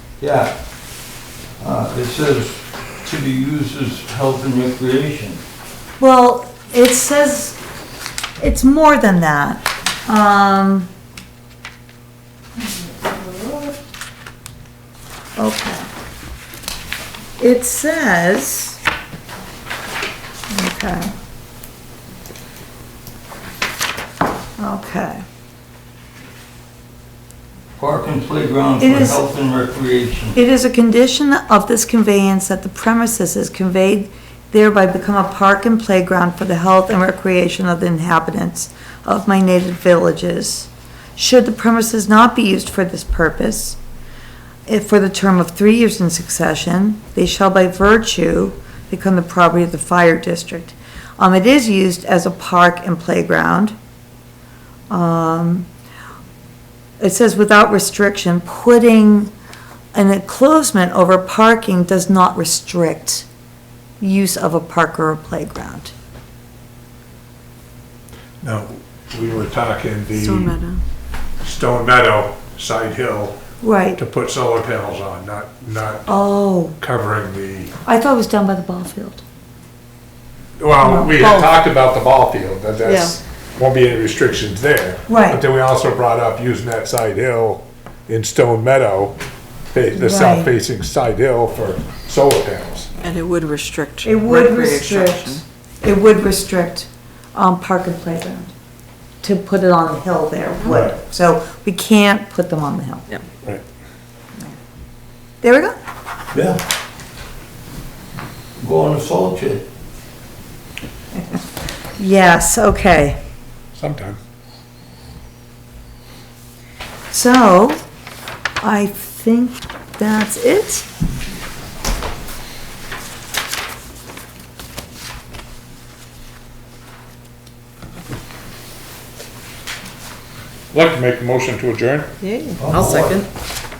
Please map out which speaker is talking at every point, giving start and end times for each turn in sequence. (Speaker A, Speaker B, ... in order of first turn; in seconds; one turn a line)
Speaker A: 0.2-0.5
Speaker A: 1.6-5.4
Speaker B: 6.0-7.6
Speaker B: 8.4-10.9
Speaker B: 15.3-15.9
Speaker B: 17.4-18.8
Speaker B: 20.5-21.1
Speaker B: 24.6-25.2
Speaker A: 27.8-30.4
Speaker B: 28.8-29.2
Speaker B: 30.3-43.8
Speaker B: 44.7-53.7
Speaker B: 54.9-55.7
Speaker B: 57.0-59.3
Speaker B: 59.9-63.3
Speaker B: 64.0-65.9
Speaker C: 68.4-70.6
Speaker D: 70.1-70.8
Speaker C: 71.4-73.4
Speaker B: 73.6-74.0
Speaker C: 74.0-76.1
Speaker B: 76.1-76.8
Speaker C: 76.8-77.7
Speaker B: 77.8-79.2
Speaker C: 80.6-89.2
Speaker B: 80.8-81.5
Speaker D: 82.8-83.1
Speaker B: 85.1-85.4
Speaker C: 89.7-92.9
Speaker B: 89.9-90.5
Speaker D: 93.0-95.4
Speaker B: 94.0-98.5
Speaker B: 99.2-103.1
Speaker C: 100.6-100.9
Speaker B: 105.4-105.8
Speaker C: 106.3-106.6
Speaker A: 108.6-109.6
Speaker B: 111.1-113.2
Speaker C: 113.8-114.2
Speaker B: 117.1-117.8
Speaker B: 118.6-120.9
Speaker C: 130.7-132.1
Speaker D: 132.2-133.2
Speaker A: 132.6-133.2